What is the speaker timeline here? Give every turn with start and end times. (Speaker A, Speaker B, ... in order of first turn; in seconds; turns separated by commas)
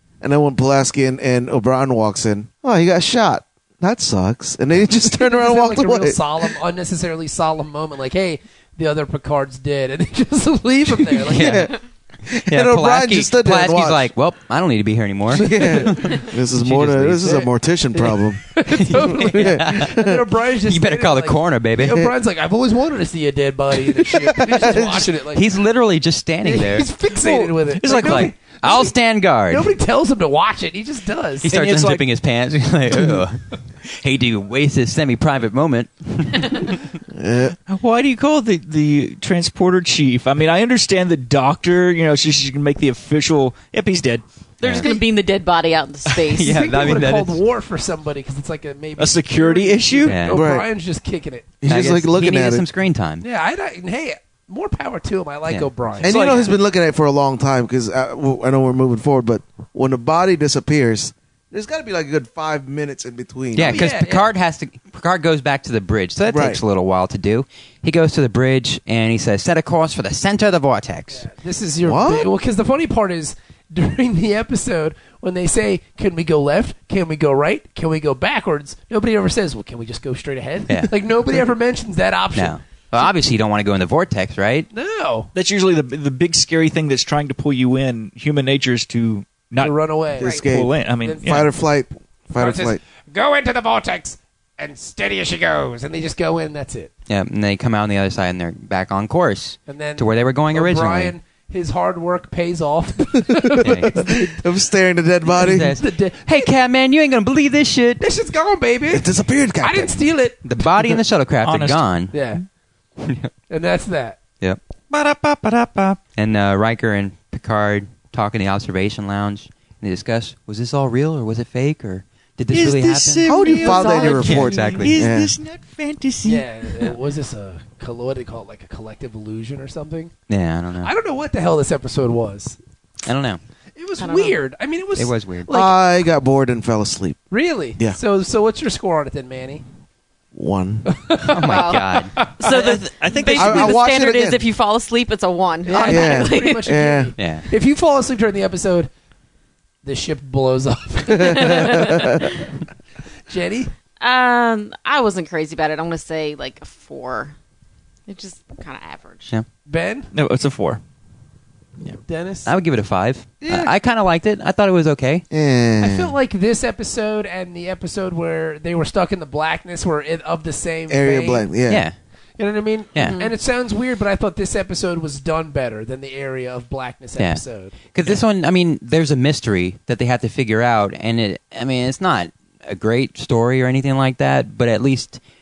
Speaker A: 0.2-6.5, Speaker B: 5.1-11.6, Speaker C: 11.2-17.3, Speaker A: 11.2-14.1, Speaker A: 15.3-20.2, Speaker B: 15.7-16.2, Speaker B: 17.2-25.5, Speaker C: 18.7-20.0, Speaker C: 20.6-22.1, Speaker A: 24.0-25.1, Speaker C: 25.3-26.9, Speaker B: 26.4-28.9, Speaker D: 27.2-28.3, Speaker C: 27.9-29.7, Speaker B: 29.5-31.5, Speaker C: 31.4-36.8, Speaker D: 31.4-32.1, Speaker A: 37.1-37.5, Speaker D: 37.7-44.2, Speaker E: 44.6-46.8, Speaker C: 44.6-44.9, Speaker C: 46.0-47.4, Speaker B: 46.4-51.5, Speaker D: 49.0-50.2, Speaker C: 50.0-50.4, Speaker A: 50.3-50.7, Speaker A: 51.6-52.6, Speaker C: 51.6-53.2, Speaker B: 53.2-56.2, Speaker A: 56.0-63.9, Speaker D: 56.1-56.5, Speaker C: 63.5-71.2, Speaker B: 63.6-64.3, Speaker A: 66.3-66.6, Speaker B: 71.1-82.6, Speaker A: 71.8-72.3, Speaker C: 82.3-84.7, Speaker B: 84.7-85.3, Speaker D: 85.3-91.5, Speaker B: 89.6-90.4, Speaker A: 90.2-92.8, Speaker B: 91.0-91.3, Speaker B: 92.3-96.9, Speaker C: 97.1-101.1, Speaker B: 99.7-104.4, Speaker A: 103.4-105.8, Speaker C: 103.6-103.9, Speaker B: 105.3-106.5, Speaker C: 105.3-108.0, Speaker B: 108.0-109.1, Speaker A: 108.9-110.0, Speaker B: 109.6-110.4, Speaker C: 110.4-112.3, Speaker D: 111.4-111.8, Speaker B: 112.1-112.4, Speaker C: 113.0-113.3, Speaker B: 113.5-114.2, Speaker C: 114.4-123.3, Speaker D: 122.5-126.9, Speaker A: 123.2-125.3, Speaker E: 123.6-124.4, Speaker C: 123.9-125.1, Speaker B: 126.2-130.1, Speaker C: 130.3-130.9, Speaker B: 130.8-132.6, Speaker C: 133.0-133.4, Speaker B: 133.8-135.8, Speaker E: 134.0-134.3, Speaker C: 134.9-135.5, Speaker A: 135.5-137.2, Speaker B: 137.3-139.6, Speaker A: 140.3-141.0, Speaker B: 140.9-142.7, Speaker C: 141.3-142.2, Speaker E: 141.4-146.7, Speaker D: 142.5-143.8, Speaker A: 143.3-144.4, Speaker B: 145.6-148.9, Speaker A: 145.8-147.1, Speaker C: 147.2-147.4, Speaker B: 149.8-152.3, Speaker E: 151.3-152.2, Speaker B: 153.3-153.7, Speaker E: 154.0-157.3, Speaker E: 158.1-159.3, Speaker B: 159.7-160.1, Speaker D: 160.1-160.8, Speaker B: 162.0-162.5, Speaker C: 162.4-165.2, Speaker A: 165.3-166.1, Speaker B: 165.8-171.5, Speaker A: 170.9-171.8, Speaker C: 171.7-171.9, Speaker B: 172.4-177.7, Speaker E: 173.0-173.3, Speaker C: 177.2-177.4, Speaker C: 177.9-185.2